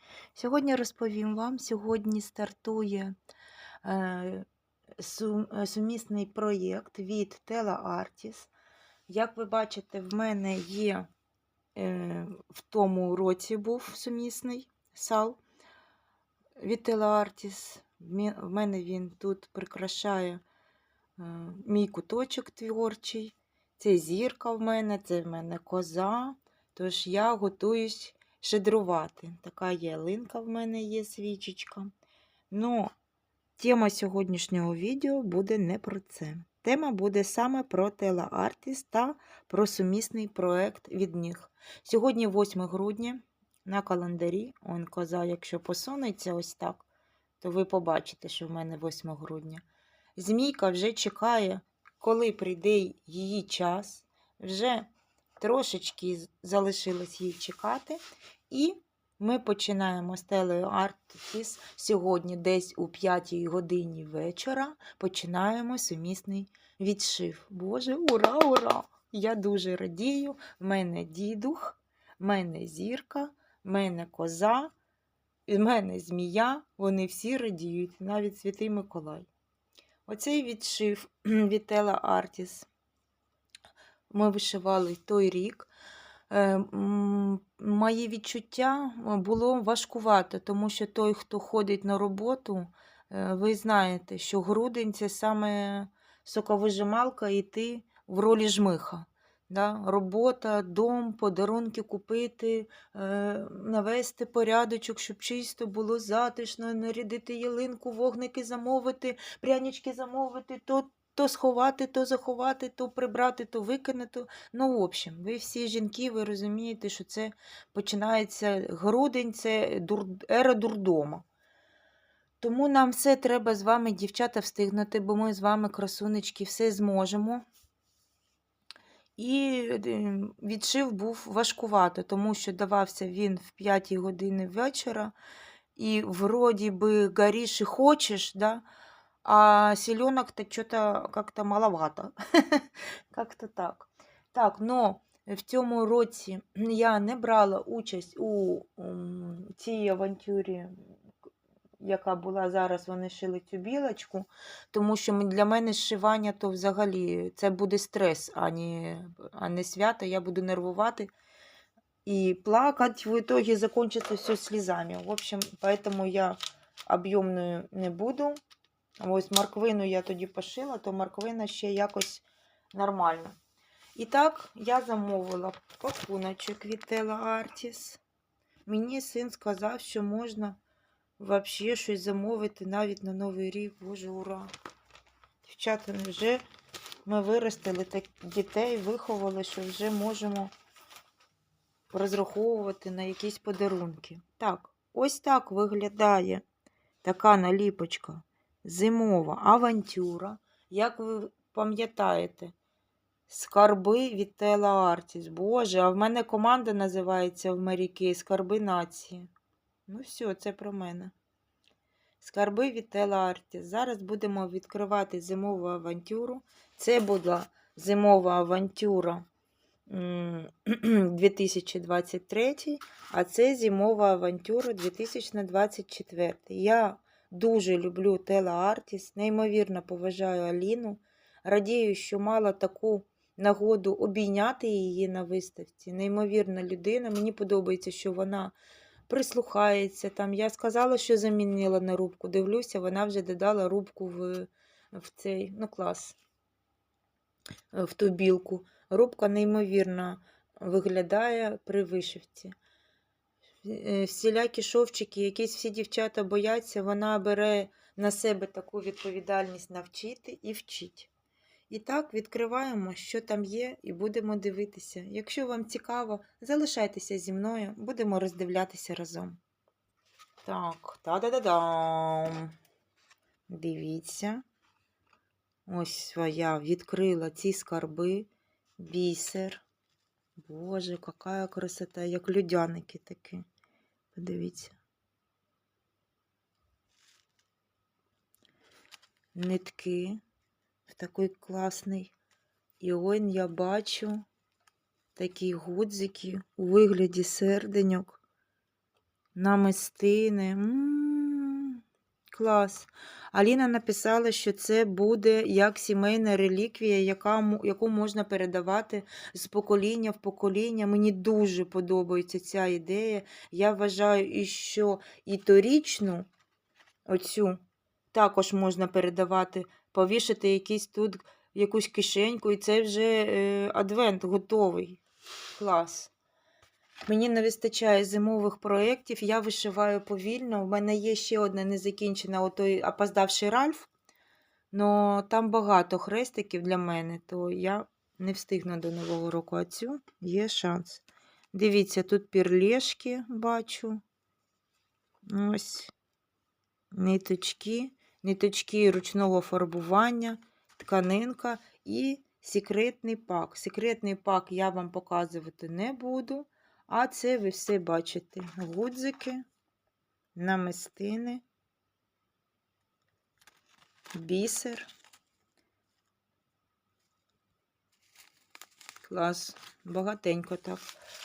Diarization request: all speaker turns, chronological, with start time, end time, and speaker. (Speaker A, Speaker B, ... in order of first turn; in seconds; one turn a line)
Speaker A: 0.3-3.1
Speaker A: 3.8-4.5
Speaker A: 5.0-8.5
Speaker A: 9.1-11.1
Speaker A: 11.7-15.4
Speaker A: 16.6-20.4
Speaker A: 21.2-31.9
Speaker A: 32.5-32.9
Speaker A: 33.6-46.9
Speaker A: 47.4-49.6
Speaker A: 50.1-74.7
Speaker A: 75.5-79.3
Speaker A: 80.1-82.7
Speaker A: 84.1-85.7
Speaker A: 86.3-121.2
Speaker A: 122.4-127.4
Speaker A: 129.2-135.1
Speaker A: 135.8-138.6
Speaker A: 139.2-150.8
Speaker A: 151.8-161.1
Speaker A: 162.0-168.4
Speaker A: 169.0-173.4
Speaker A: 173.9-178.0
Speaker A: 178.7-180.6
Speaker A: 181.2-184.5
Speaker A: 185.4-186.4
Speaker A: 187.1-190.5
Speaker A: 191.9-196.4
Speaker A: 197.0-202.5
Speaker A: 203.3-209.3
Speaker A: 209.9-211.1
Speaker A: 212.2-219.2
Speaker A: 219.9-238.5
Speaker A: 239.1-246.2
Speaker A: 247.7-252.5
Speaker A: 253.6-261.1
Speaker A: 261.7-269.4
Speaker A: 270.4-272.5
Speaker A: 273.5-274.4
Speaker A: 275.7-279.6
Speaker A: 280.4-283.4
Speaker A: 284.1-284.8
Speaker A: 289.3-290.2
Speaker A: 290.9-292.1
Speaker A: 292.8-294.2
Speaker A: 295.1-298.2
Speaker A: 299.3-301.8
Speaker A: 302.3-316.3
Speaker A: 317.1-317.6
Speaker A: 318.1-325.0
Speaker A: 325.5-326.1
Speaker A: 327.1-333.9
Speaker A: 334.7-344.0
Speaker A: 345.3-345.9
Speaker A: 346.9-359.4
Speaker A: 360.4-361.4
Speaker A: 364.1-364.9
Speaker A: 369.0-370.9